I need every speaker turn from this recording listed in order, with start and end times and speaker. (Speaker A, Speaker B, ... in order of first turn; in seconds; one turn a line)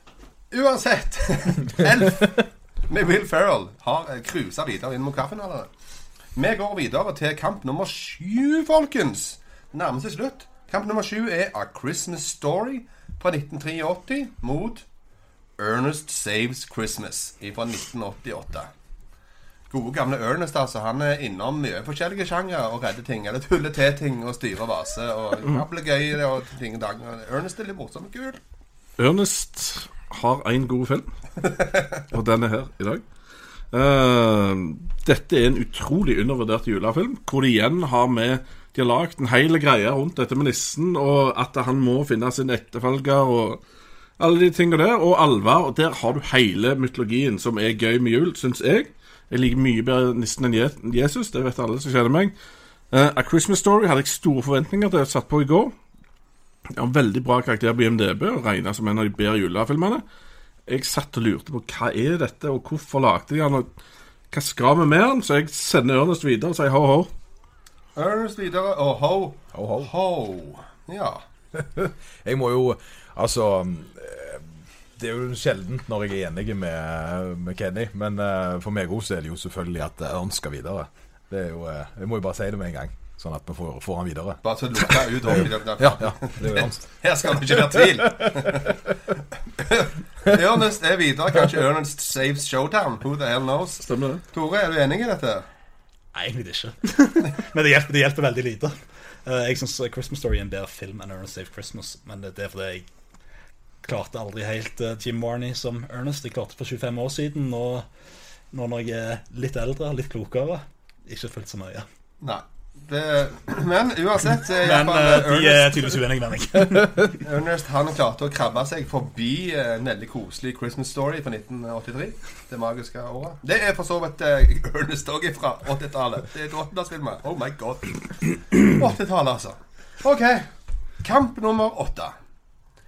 Speaker A: 0.5-5.7
Speaker A: 6.3-14.8
Speaker A: 15.6-18.7
Speaker A: 19.7-28.4
Speaker B: 29.0-31.1
Speaker B: 32.1-33.0
Speaker B: 33.7-43.6
Speaker B: 44.2-52.4
Speaker B: 52.9-55.7
Speaker B: 56.7-60.0
Speaker B: 60.7-63.7
Speaker B: 64.3-67.1
Speaker A: 68.0-71.2
Speaker C: 69.5-69.9
Speaker C: 71.5-88.5
Speaker A: 84.4-88.8
Speaker A: 89.6-95.5
Speaker B: 93.8-94.2
Speaker D: 96.1-102.9
Speaker D: 103.8-107.9
Speaker D: 108.5-111.9
Speaker A: 112.2-116.0
Speaker D: 114.5-117.2
Speaker A: 117.2-132.2